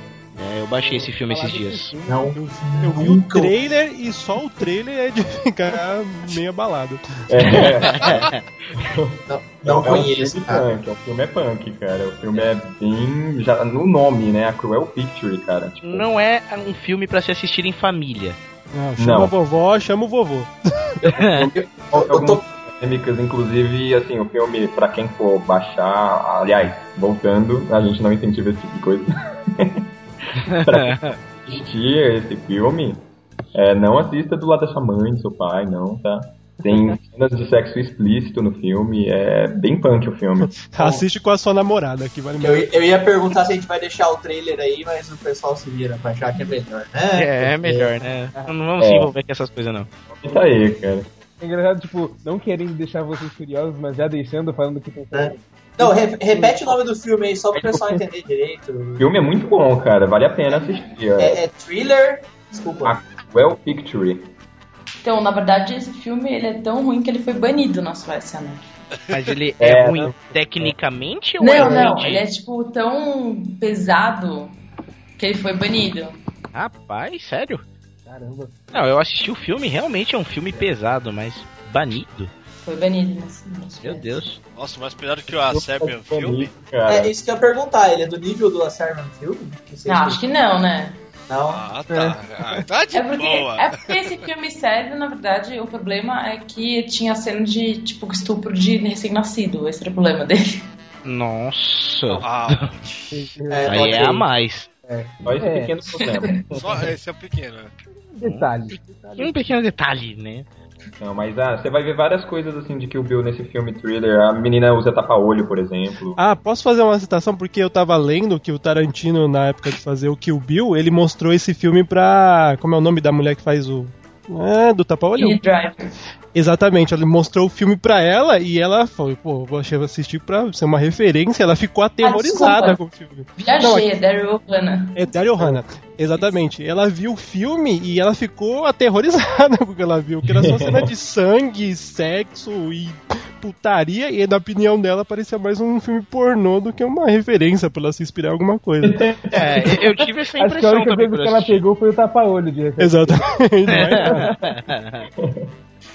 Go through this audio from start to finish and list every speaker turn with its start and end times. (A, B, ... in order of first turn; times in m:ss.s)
0:00.4-0:02.0 A
0:00.8-0:07.2 B
0:02.1-0:03.5 C
0:07.3-0:08.2 D
0:08.0-0:08.4 A
0:08.8-0:16.1 D
0:09.3-0:10.7 C
0:15.8-0:18.4 A
0:18.7-0:20.5 B
0:19.0-0:19.3 D
0:21.0-0:29.9 D
0:21.6-0:22.4 C
0:30.5-0:31.2 A
0:30.5-0:33.0 D
0:33.5-0:40.5 D
0:40.5-0:42.7 B
0:40.8-0:41.0 C
0:42.4-0:48.0 C
0:47.1-0:49.9 A
0:48.3-0:48.6 E
0:48.8-0:49.1 D
0:50.1-0:51.1 D
0:51.4-0:56.8 E
0:55.1-0:59.1 C
0:57.5-0:58.0 D
0:59.0-1:01.4 D
1:00.5-1:03.0 C
1:02.8-1:04.3 D
1:05.0-1:08.6 F
1:09.1-1:12.2 A
1:09.6-1:10.7 D
1:10.0-1:10.4 E
1:11.4-1:14.6 F
1:11.6-1:12.0 C
1:15.2-1:16.2 F
1:16.5-1:17.6 A
1:18.1-1:18.6 E
1:18.7-1:22.3 A
1:22.6-1:24.2 F
1:23.8-1:24.4 A
1:24.5-1:26.5 G
1:25.3-1:27.1 D
1:26.9-1:30.2 C
1:29.9-1:31.0 F
1:31.3-1:31.6 C
1:31.5-1:34.2 G
1:31.9-1:32.6 E
1:32.9-1:40.7 F
1:41.0-1:42.7 A
1:42.2-1:43.3 G
1:43.1-1:43.8 E
1:43.5-1:44.3 C
1:43.7-1:44.7 A
1:44.9-1:45.8 E
1:45.2-1:46.8 D
1:46.1-1:46.4 F
1:46.5-1:47.7 G
1:48.2-1:49.4 E
1:48.2-1:48.5 A
1:49.2-1:50.5 A
1:51.0-1:56.2 D
1:56.2-2:05.4 B
2:05.2-2:05.9 F
2:06.3-2:13.9 B
2:12.0-2:12.8 F
2:13.4-2:14.9 F
2:15.0-2:29.0 B
2:20.3-2:20.9 D
2:28.8-2:29.4 D
2:29.3-2:31.6 A
2:30.4-2:33.2 E
2:32.8-2:34.2 B
2:33.7-2:35.1 A
2:34.0-2:34.5 E
2:35.2-2:35.5 D